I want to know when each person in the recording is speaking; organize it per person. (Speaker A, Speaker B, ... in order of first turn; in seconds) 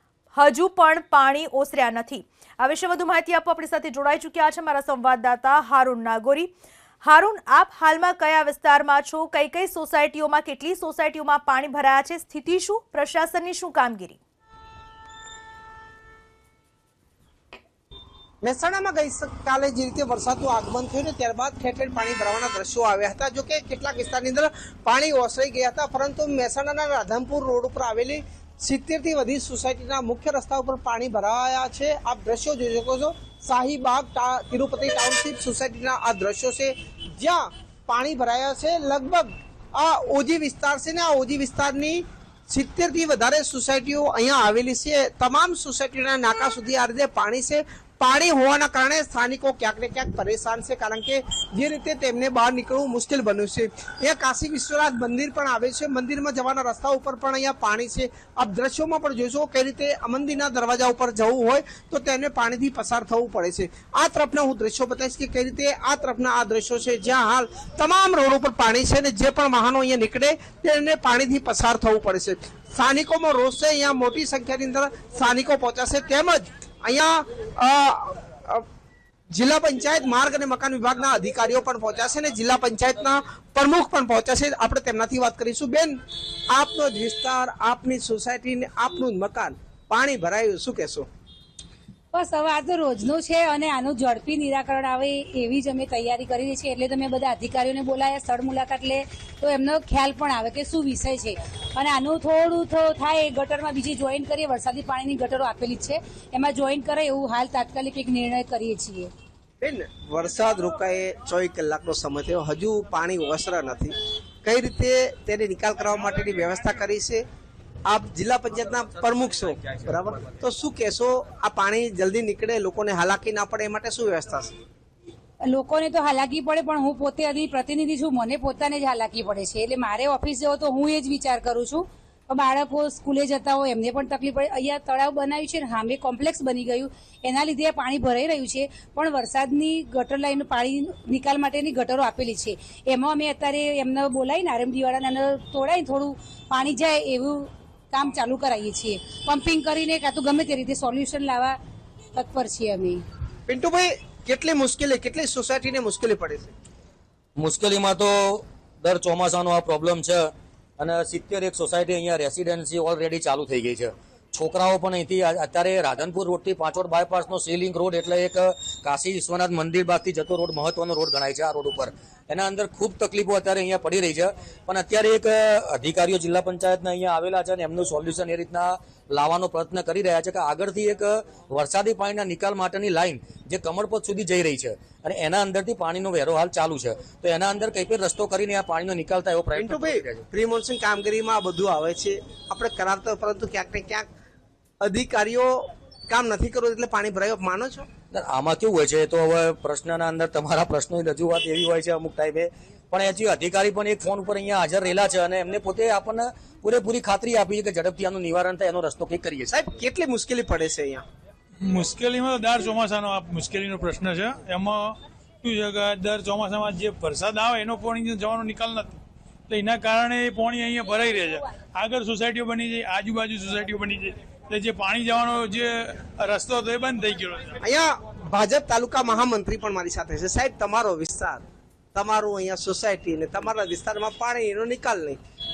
Speaker A: 0.3-6.5, 7.0-14.2
Speaker B: 18.4-78.6, 79.3-86.0, 86.5-91.1, 109.6-117.2, 117.9-124.5, 153.5-156.5, 189.5-194.1, 194.8-197.9, 209.5-211.0, 227.6-231.4, 231.9-235.2
Speaker C: 92.1-109.1, 125.5-151.6, 152.2-153.0
Speaker D: 157.4-190.3, 198.1-209.6
Speaker E: 211.6-227.6